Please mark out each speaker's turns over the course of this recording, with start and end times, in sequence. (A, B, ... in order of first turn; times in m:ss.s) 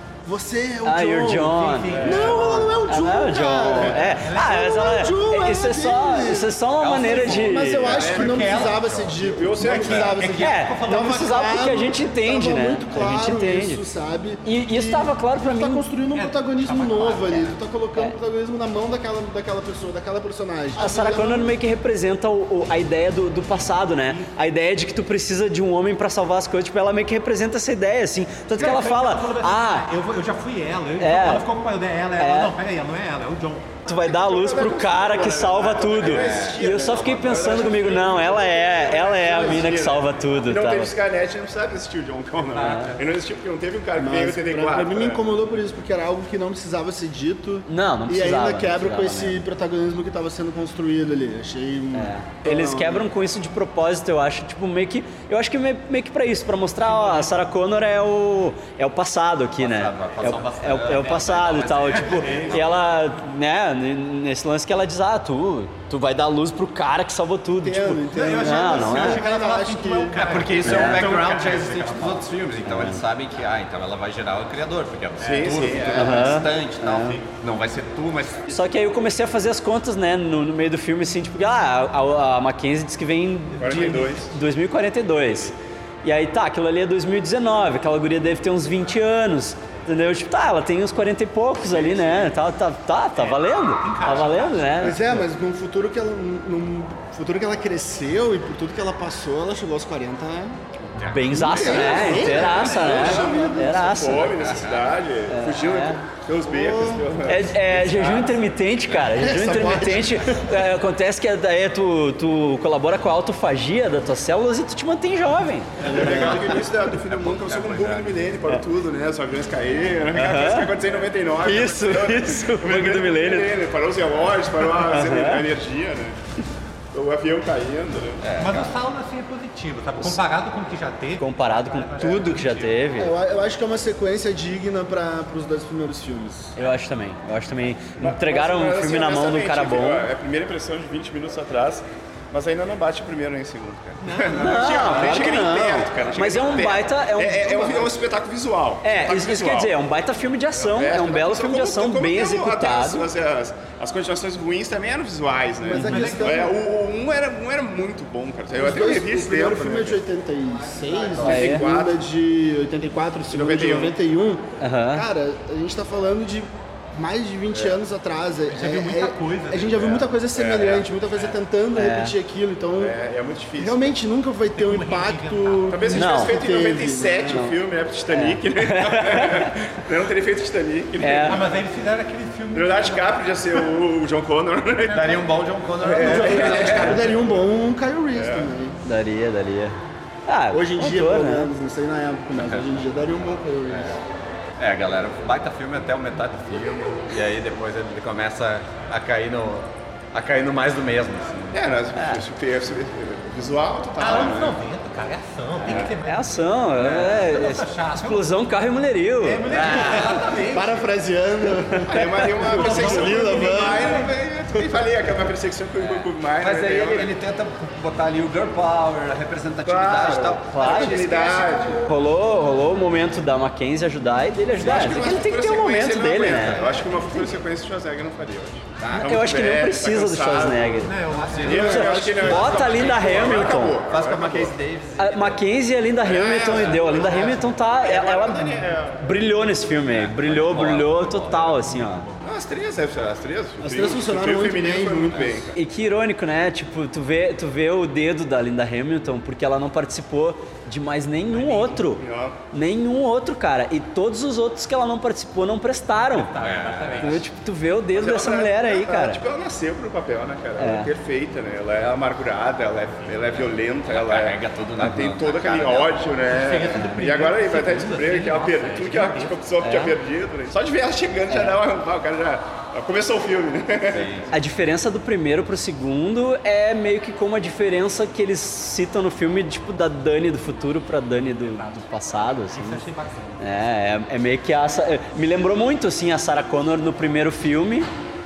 0:00.2-0:21.6 A
0:00.8-0:07.9 B
0:01.6-0:02.7 C
0:02.0-0:02.4 D
0:03.7-0:04.6 C
0:06.8-0:11.2 C
0:07.9-0:10.2 D
0:10.3-0:13.8 B
0:14.4-0:15.9 B
0:16.1-0:17.6 C
0:20.8-0:29.9 B
0:28.6-0:33.8 C
0:31.0-0:31.5 B
0:32.2-0:32.5 B
0:33.9-0:40.9 B
0:33.9-0:45.2 D
0:36.0-0:37.5 E
0:39.4-0:39.7 A
0:42.4-0:43.1 C
0:42.6-0:43.0 B
0:44.0-0:53.1 A
0:47.7-0:49.4 B
0:51.9-1:09.2 B
0:56.9-0:57.3 C
0:59.6-1:02.6 E
1:01.7-1:02.6 D
1:07.6-1:10.4 A
1:08.1-1:12.3 C
1:10.1-1:18.6 E
1:10.6-1:11.1 B
1:12.7-1:13.0 B
1:15.2-1:16.4 D
1:15.9-1:17.2 B
1:18.5-1:35.0 B
1:23.6-1:24.3 D
1:31.6-1:32.3 D
1:33.2-1:35.2 C
1:34.8-1:40.6 A
1:41.0-1:42.8 E
1:41.1-1:44.4 B
1:41.3-1:44.3 A
1:41.8-1:48.4 D
1:44.4-1:44.9 E
1:45.3-1:46.0 B
1:46.5-1:47.1 A
1:47.3-1:56.6 B
1:48.8-1:49.1 E
1:49.1-1:50.6 A
1:55.8-2:06.2 D
1:57.2-1:58.2 E
2:00.1-2:00.7 B
2:01.4-2:03.5 B
2:04.9-2:05.4 B
2:06.9-2:08.4 D
2:08.2-2:08.7 E
2:08.4-2:12.6 C
2:11.2-2:13.1 B
2:12.0-2:12.4 D
2:13.0-2:16.6 A
2:16.6-2:20.1 B
2:18.0-2:29.8 D
2:24.4-2:27.9 B
2:28.8-2:33.1 B
2:30.5-2:40.0 D
2:35.7-2:36.6 A
2:35.7-2:36.1 B
2:35.9-2:36.3 C
2:38.5-2:52.9 A
2:40.9-2:41.2 E
2:41.1-2:42.0 D
2:41.3-2:41.6 B
2:43.3-2:43.9 D
2:44.6-2:45.1 B
2:47.5-2:47.8 D
2:48.5-2:50.2 C
2:50.3-2:50.9 D
2:51.7-2:52.2 B
2:52.8-2:54.0 D
2:53.6-2:57.5 A
2:54.6-2:55.7 C
2:55.7-3:01.6 D
2:55.9-2:56.4 B
2:57.3-2:59.5 B
3:01.0-3:01.4 B
3:01.2-3:03.2 C
3:02.5-3:05.2 D
3:04.9-3:05.4 C
3:04.9-3:07.2 E
3:05.8-3:07.0 D
3:06.0-3:08.8 A
3:06.0-3:07.0 C
3:06.7-3:07.0 B
3:08.1-3:08.5 D
3:08.8-3:09.8 B
3:10.3-3:11.5 B
3:10.5-3:14.0 A
3:12.4-3:12.7 E
3:13.7-3:14.0 E
3:14.6-3:21.6 E
3:21.5-3:24.6 D
3:22.0-3:22.2 B
3:24.0-3:28.2 C
3:25.6-3:25.9 D
3:26.0-3:29.5 B
3:29.2-3:30.9 C
3:29.5-3:30.4 E
3:30.0-3:34.0 A
3:31.9-3:37.2 D
3:32.5-3:34.1 C
3:36.0-3:41.6 E
3:39.6-3:41.8 D
3:40.5-3:41.1 B
3:41.8-3:46.7 B
3:44.6-3:50.9 D
3:46.4-3:46.9 E
3:48.8-3:49.2 E
3:48.9-3:53.8 B
3:50.8-3:52.6 C
3:51.1-3:51.7 E
3:51.4-3:54.6 D
3:51.5-3:52.4 A
3:52.4-3:53.2 E
3:53.9-3:55.4 E
3:55.0-4:02.1 B
3:56.0-3:59.1 D
3:56.6-3:57.0 E
3:59.9-4:02.1 E
4:02.2-4:05.6 D
4:03.6-4:05.4 A
4:05.6-4:16.3 B
4:11.3-4:11.9 C
4:11.9-4:12.4 D
4:16.1-4:17.3 C
4:16.4-4:17.1 E
4:17.0-4:19.2 B
4:17.9-4:34.1 D
4:20.6-4:20.9 B
4:23.9-4:26.0 E
4:26.3-4:29.4 C
4:29.6-4:30.0 B
4:31.3-4:31.6 B
4:33.9-4:34.3 E
4:34.3-4:42.9 B
4:41.5-4:41.8 C
4:42.4-4:43.4 C
4:43.4-4:47.9 B